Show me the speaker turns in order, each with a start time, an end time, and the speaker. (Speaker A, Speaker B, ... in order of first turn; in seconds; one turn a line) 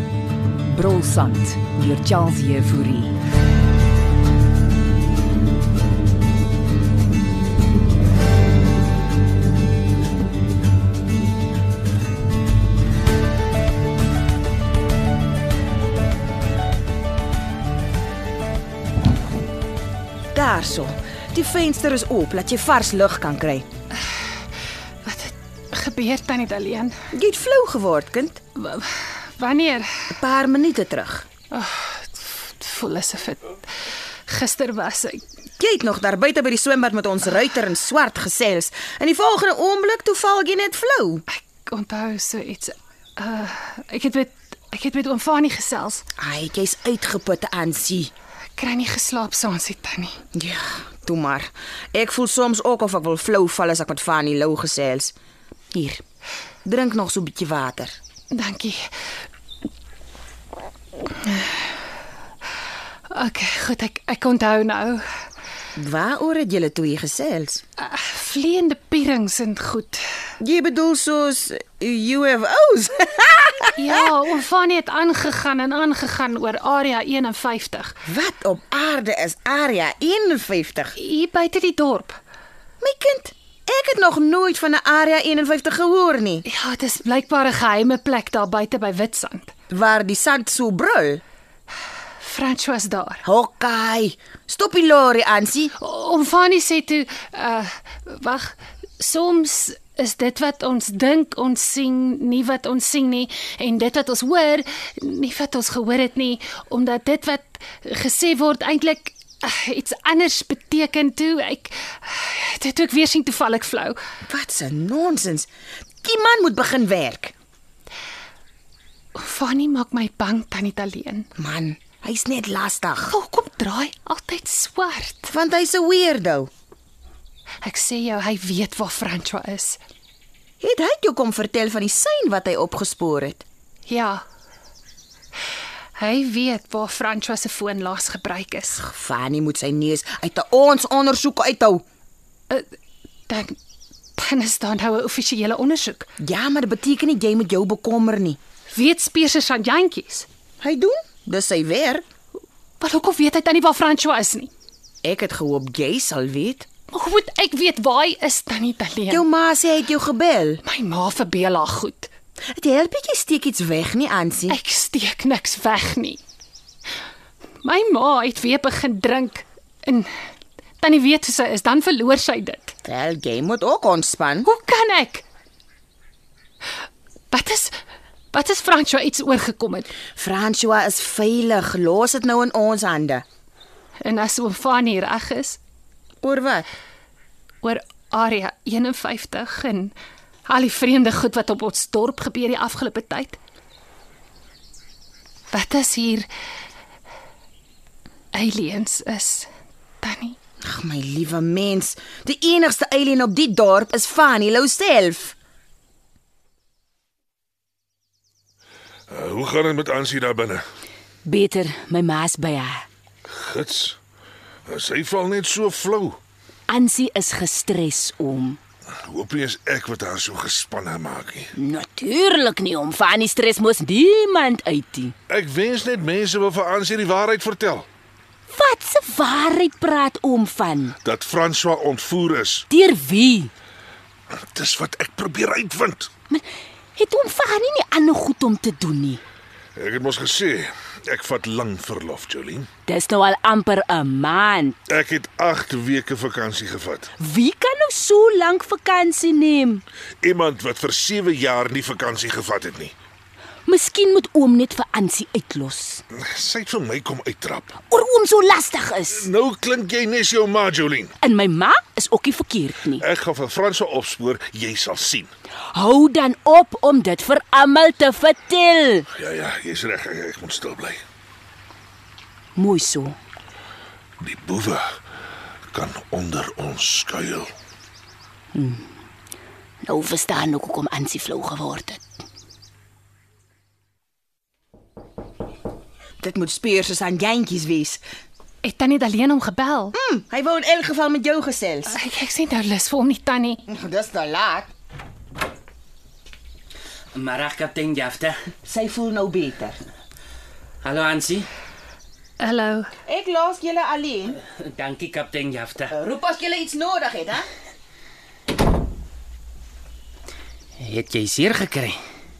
Speaker A: 0.7-3.1
Speaker B: 20.3-23.6
Speaker C: 25.0-26.9
Speaker B: 27.1-28.4
Speaker C: 28.6-29.9
Speaker B: 30.2-31.2
Speaker C: 31.5-33.7
Speaker C: 34.3-35.2
Speaker B: 35.6-41.2
Speaker C: 41.3-46.0
Speaker B: 46.2-48.1
Speaker C: 48.6-50.2
Speaker B: 50.3-55.1
Speaker D: 55.7-56.0
Speaker B: 56.6-58.0
Speaker C: 58.3-58.8
Speaker C: 61.2-61.6
Speaker C: 63.1-65.0
Speaker B: 65.8-67.6
Speaker C: 67.8-70.0
Speaker B: 70.4-73.9
Speaker C: 73.8-77.9
Speaker B: 78.0-80.9
Speaker C: 81.0-82.2
Speaker B: 82.8-86.4
Speaker C: 86.5-89.5
Speaker B: 89.7-91.2
Speaker C: 92.2-93.2
Speaker B: 93.2-95.7
Speaker C: 95.8-114.0
Speaker B: 114.3-115.5
Speaker B: 116.0-117.3
Speaker C: 119.1-121.3
Speaker B: 121.4-123.1
Speaker C: 123.1-125.3
Speaker B: 125.3-126.5
Speaker C: 127.6-129.8
Speaker B: 130.6-133.4
Speaker C: 133.9-134.2
Speaker C: 136.0-138.8
Speaker B: 138.8-141.8
Speaker C: 143.3-143.6
Speaker C: 144.2-146.1
Speaker B: 146.2-148.4
Speaker C: 148.7-150.2
Speaker B: 150.6-152.0
Speaker C: 152.8-154.5
Speaker B: 155.0-156.7
Speaker C: 156.9-159.2
Speaker B: 159.1-160.6
Speaker C: 160.6-162.1
Speaker B: 162.5-164.6
Speaker C: 164.5-166.2
Speaker C: 167.6-170.1
Speaker C: 170.8-172.8
Speaker B: 172.8-174.5
Speaker C: 174.4-175.2
Speaker C: 177.3-177.8
Speaker C: 178.3-179.9
Speaker B: 180.2-183.2
Speaker C: 184.0-185.6
Speaker B: 186.2-186.7
Speaker C: 187.6-189.9
Speaker C: 190.5-193.4
Speaker C: 195.5-196.3
Speaker C: 198.3-199.5
Speaker C: 200.0-200.4
Speaker B: 200.6-205.3
Speaker E: 209.1-210.6
Speaker D: 211.2-212.8
Speaker E: 213.3-214.0
Speaker E: 214.7-216.2
Speaker D: 216.7-218.6
Speaker E: 219.0-221.5
Speaker D: 221.6-225.1
Speaker E: 225.3-227.9
Speaker D: 228.5-230.9
Speaker E: 231.0-232.7
Speaker D: 232.7-233.5
Speaker E: 234.3-236.1
Speaker D: 236.9-239.2
Speaker E: 239.7-242.7
Speaker D: 242.9-244.8
Speaker E: 244.9-247.1
Speaker D: 247.2-249.8
Speaker E: 250.2-252.9
Speaker D: 253.7-256.0
Speaker E: 256.1-257.8
Speaker D: 257.9-259.3
Speaker E: 259.1-261.1
Speaker D: 261.2-263.0
Speaker E: 263.0-265.3
Speaker D: 265.7-269.1
Speaker E: 269.2-271.0
Speaker D: 272.6-273.1
Speaker E: 274.2-274.9
Speaker E: 275.7-277.5
Speaker D: 278.5-278.9
Speaker D: 279.8-282.0
Speaker B: 286.2-288.0
Speaker C: 288.6-289.9
Speaker B: 290.0-291.9
Speaker C: 291.9-293.6
Speaker B: 293.7-294.7
Speaker F: 297.1-298.4
Speaker B: 298.6-299.8
Speaker F: 300.8-301.5
Speaker C: 302.4-302.9
Speaker B: 303.1-304.4
Speaker F: 304.5-305.9
Speaker B: 305.9-307.5
Speaker F: 310.8-312.0